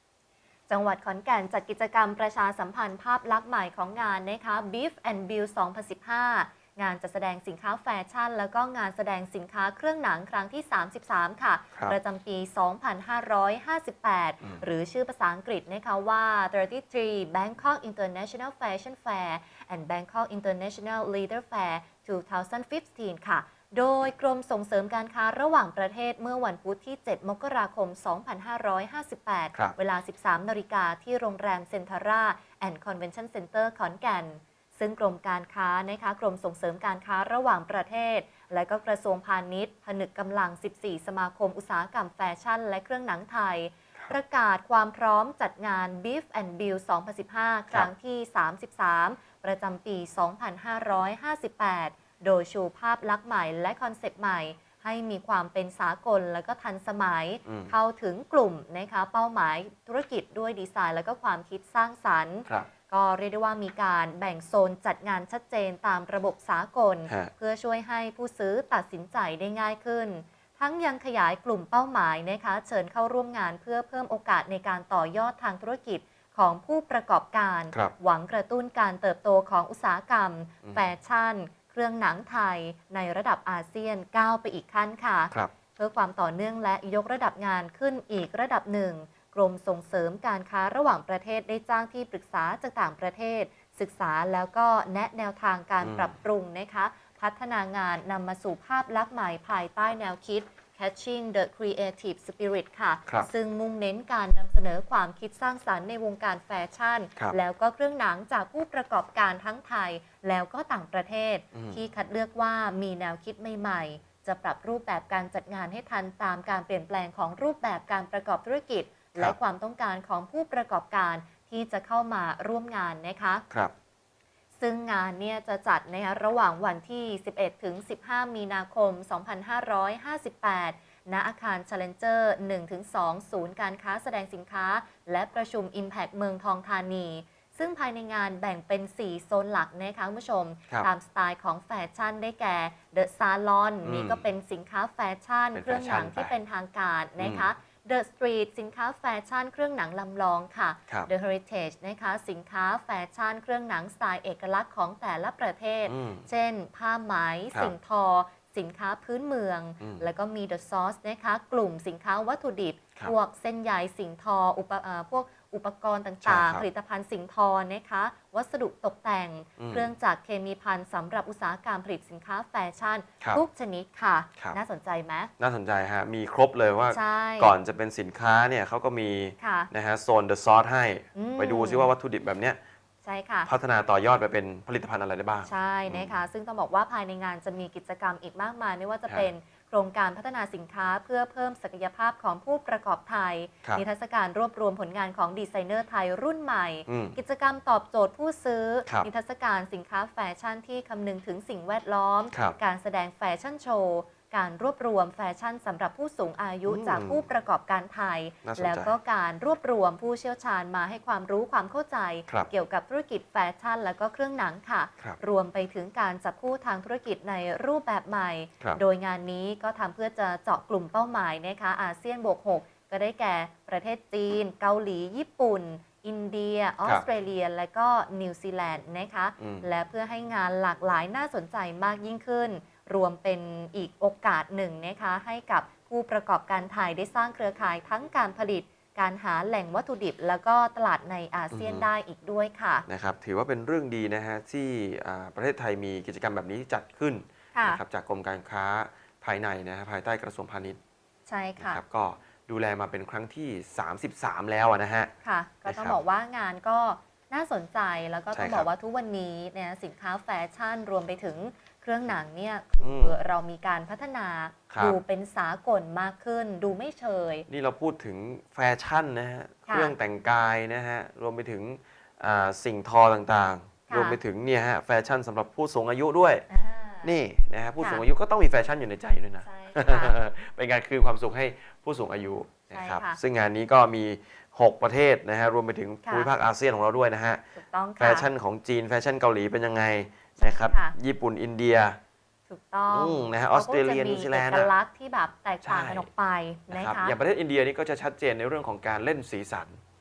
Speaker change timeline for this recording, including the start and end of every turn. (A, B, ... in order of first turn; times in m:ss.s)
0:00.7-2:03.4 A
0:57.4-0:57.7 B
1:07.1-1:07.3 B
1:35.8-1:36.1 B
1:51.5-1:51.8 B
2:04.6-2:55.3 A
2:23.8-2:24.2 B
2:25.5-2:26.3 B
2:27.2-2:27.5 B
2:35.9-2:36.3 B
2:39.8-2:40.1 B
2:46.2-2:46.6 B
2:49.6-2:49.9 B
2:55.4-3:02.6 B
2:56.9-2:57.5 A
2:59.4-2:59.7 A
3:01.1-3:01.9 A
3:03.0-3:03.5 A
3:03.4-3:06.2 B
3:05.4-4:02.9 A
3:16.9-3:17.2 B
3:22.3-3:22.6 B
3:26.7-3:27.2 B
3:28.4-3:28.9 B
3:49.4-3:49.7 B
4:01.5-4:01.9 B
4:02.9-4:10.8 B
4:07.5-4:07.8 A
4:11.3-4:11.8 A
4:11.6-4:15.1 B
4:15.2-4:27.5 A
4:15.6-4:16.0 B
4:18.3-4:18.7 B
4:22.8-4:23.2 B
4:24.7-4:25.0 B
4:27.5-4:36.5 B
4:29.7-4:29.9 A
4:33.9-4:34.2 A
4:36.5-4:37.1 A
4:37.0-4:47.4 B
4:37.8-4:38.0 A
4:39.4-4:40.2 A
4:42.7-4:43.2 A
4:46.0-4:46.3 A
4:47.5-4:48.3 A
4:48.0-4:52.0 B
4:50.4-4:50.9 A
4:52.5-4:57.2 A
4:52.9-4:54.7 B
4:55.6-4:56.1 B
4:56.7-4:59.8 B